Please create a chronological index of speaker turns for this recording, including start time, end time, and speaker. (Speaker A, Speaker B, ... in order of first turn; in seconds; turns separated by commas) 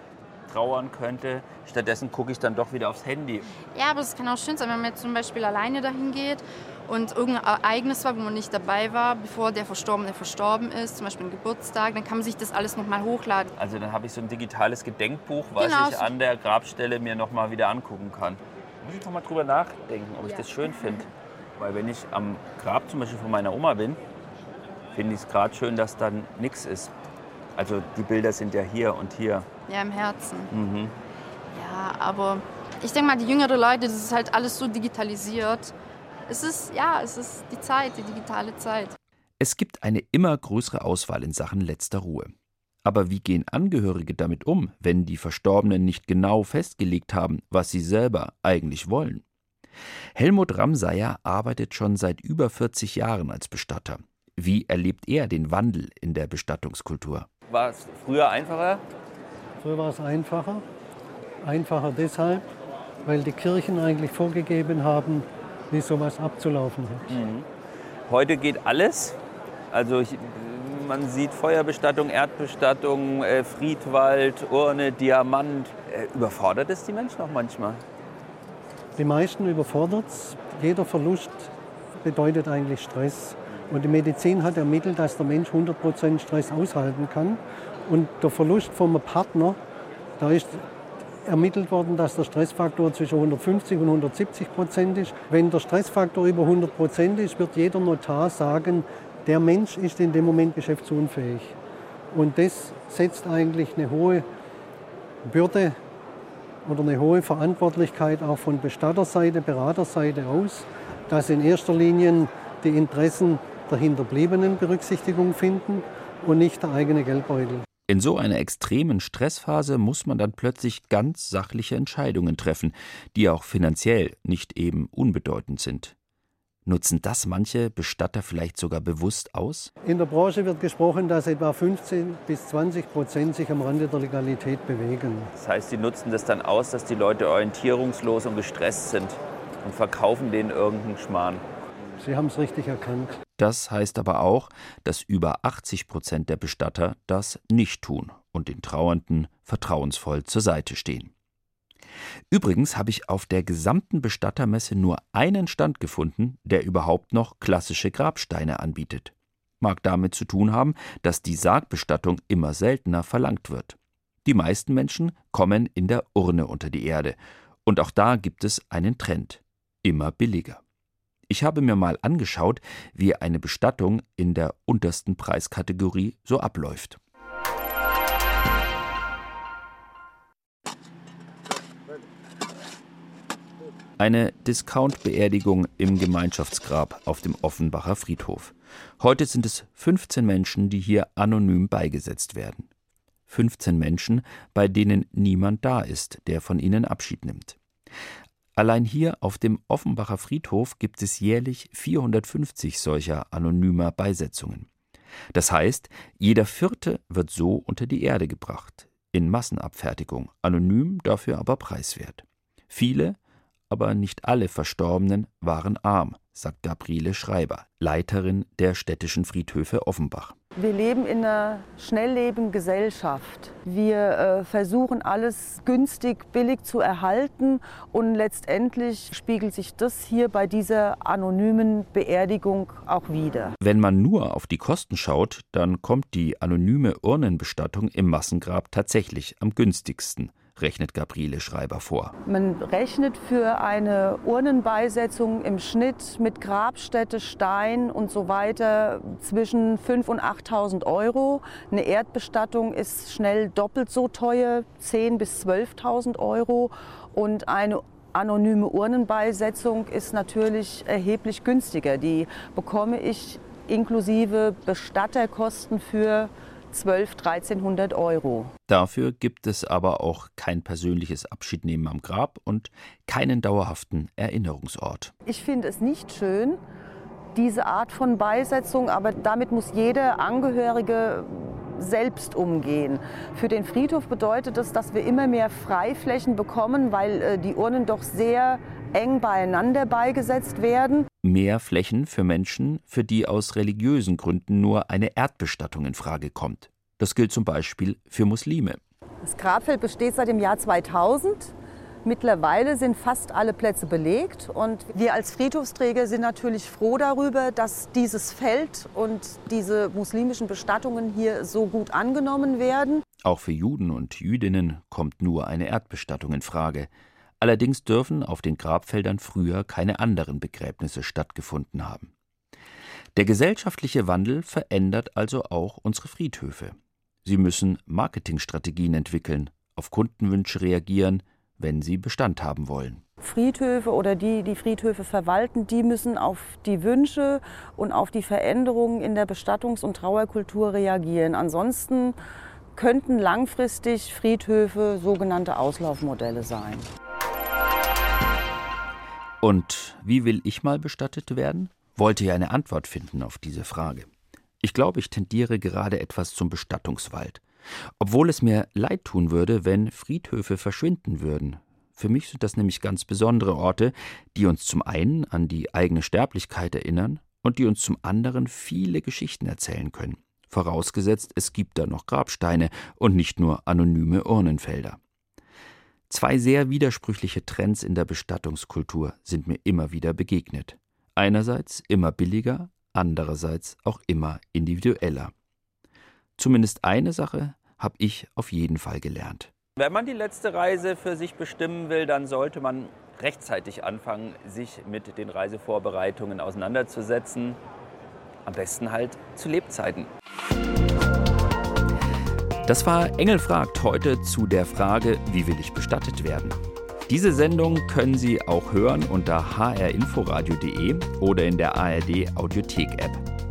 Speaker A: 0.5-3.5, Speaker B: 3.7-13.5, Speaker A: 13.6-24.0, Speaker B: 15.6-16.1, Speaker A: 24.9-26.9, Speaker A: 27.6-29.5, Speaker B: 29.7-30.5, Speaker A: 30.5-30.9, Speaker B: 31.5-35.7, Speaker B: 36.3-39.0, Speaker C: 39.4-42.3, Speaker C: 42.8-49.2, Speaker C: 50.1-57.3, Speaker A: 57.5-58.8, Speaker D: 59.6-60.6, Speaker D: 61.4-62.5, Speaker D: 63.0-67.0, Speaker A: 67.1-67.5, Speaker A: 68.1-69.2, Speaker A: 69.7-77.8, Speaker D: 79.0-81.5, Speaker D: 82.0-89.6, Speaker D: 90.2-90.6, Speaker D: 91.3-101.5, Speaker D: 102.1-104.2, Speaker D: 105.3-105.8, Speaker D: 106.7-117.7, Speaker C: 117.9-126.0, Speaker C: 126.7-129.7, Speaker D: 129.8-135.3, Speaker A: 135.3-141.4, Speaker D: 142.0-143.2, Speaker C: 143.4-151.1, Speaker C: 152.3-170.6, Speaker C: 171.3-177.0, Speaker C: 184.0-192.7, Speaker C: 193.3-197.6, Speaker C: 198.6-204.7, Speaker C: 205.3-213.2, Speaker C: 213.7-220.4, Speaker E: 220.6-233.6, Speaker C: 233.6-242.1, Speaker E: 242.3-268.5, Speaker C: 268.7-275.1, Speaker E: 275.3-276.6, Speaker E: 277.4-291.1, Speaker C: 291.2-298.8, Speaker E: 299.2-301.5, Speaker E: 302.1-313.0, Speaker C: 313.2-322.1, Speaker C: 323.1-333.0, Speaker E: 333.2-342.2, Speaker E: 342.8-346.9, Speaker C: 349.4-354.1, Speaker C: 354.6-357.4, Speaker C: 358.0-375.0, Speaker C: 376.1-385.3, Speaker C: 386.4-389.5, Speaker A: 389.8-397.6, Speaker A: 398.5-400.1, Speaker C: 402.6-413.2